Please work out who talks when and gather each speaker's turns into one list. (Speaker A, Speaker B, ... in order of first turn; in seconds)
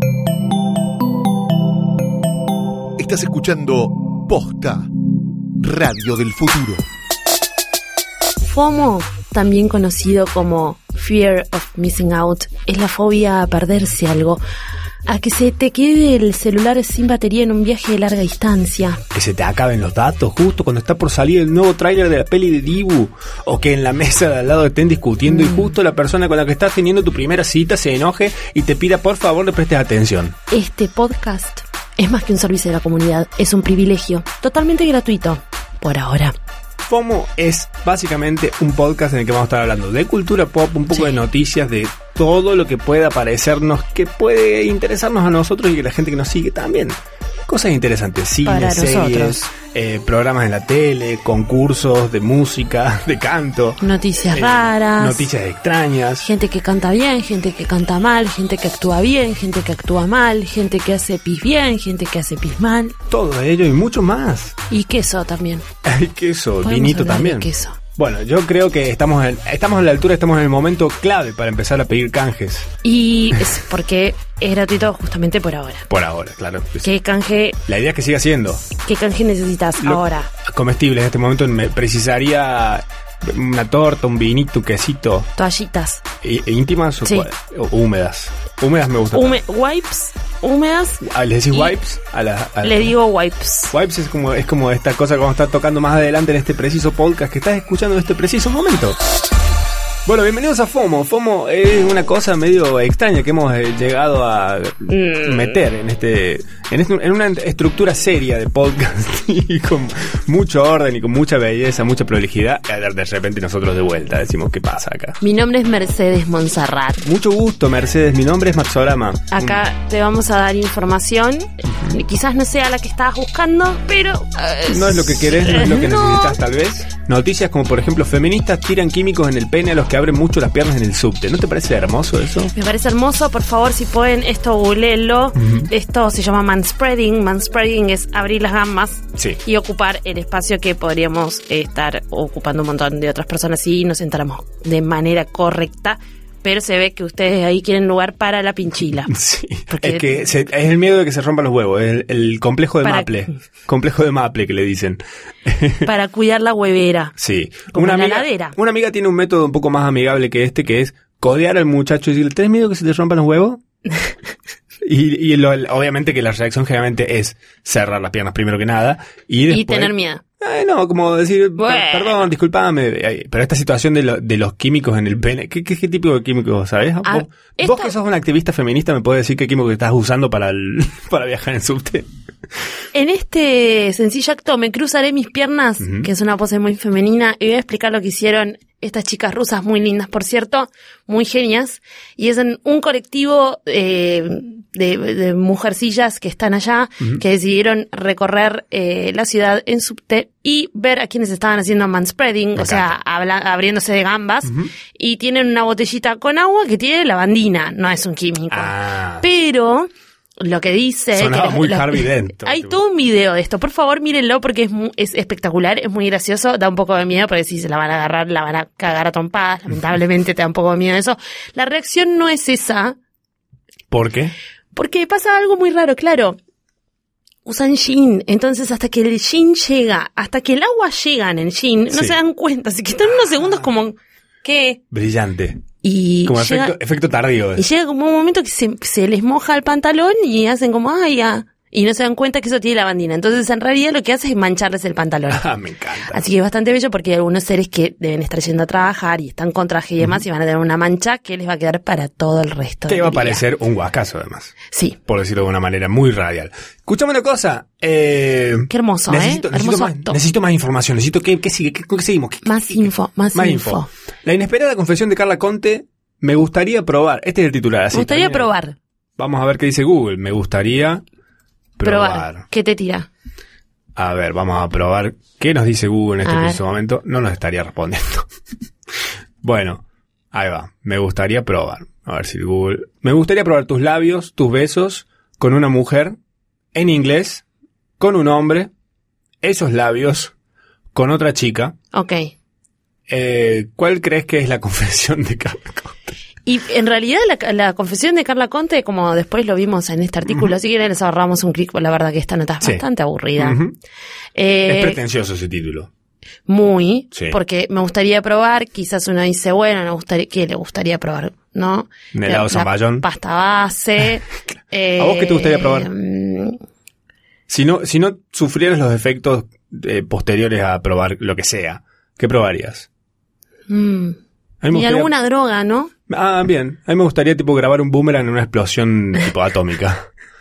Speaker A: 3.0-4.9, 5.6-6.8
Speaker B: 8.4-14.4, 15.1-19.0, 25.3-25.7, 30.5-36.3, 40.9-41.2, 48.4-49.4, 53.8-55.3, 56.2-63.0, 64.7-65.6, 66.6-67.8, 72.8-75.9, 76.8-77.6, 78.8-80.3, 85.4-86.0, 89.1-91.8, 92.6-93.7, 104.9-105.6, 115.2-117.0, 119.3-126.4, 132.5-149.1, 149.7-150.3, 152.8-153.3, 155.8-157.1, 157.7-158.6, 169.5-170.2, 171.6-172.3, 177.0-177.9, 182.9-223.0, 224.7-226.4, 227.4-234.8, 235.8-236.8, 237.6-245.4, 246.1-253.4, 254.7-255.0, 258.7-260.2, 262.4-263.9, 267.9-268.8, 271.8-273.1, 276.2-276.6, 291.9-292.3, 296.4-303.6, 304.4-305.0, 306.5-316.6, 323.7-324.2, 324.7-325.9
Speaker C: 19.1-30.4, 36.9-56.3, 63.1-64.6, 65.8-72.7, 75.9-76.9, 77.7-78.7, 79.8-85.3, 86.2-89.4, 91.0-93.0, 93.7-99.0, 100.0-115.2, 117.0-119.6, 124.7-132.5, 135.4-135.7, 149.1-155.9, 157.2-163.6, 164.8-182.1, 185.8-186.1, 202.6-203.0, 204.4-204.7, 208.5-209.3, 211.1-212.8, 223.9-224.3, 231.9-232.2, 234.9-235.6, 236.2-237.7, 245.3-246.2, 252.9-268.5, 269.2-271.0, 271.8-272.4, 273.9-278.2, 279.4-286.2, 286.7-287.4, 288.0-288.7, 289.4-290.3, 290.9-291.8, 293.1-296.2, 303.4-303.8, 304.7-305.9, 312.1-313.1, 315.0-315.9, 317.5-322.9, 324.6-325.1, 326.1-330.1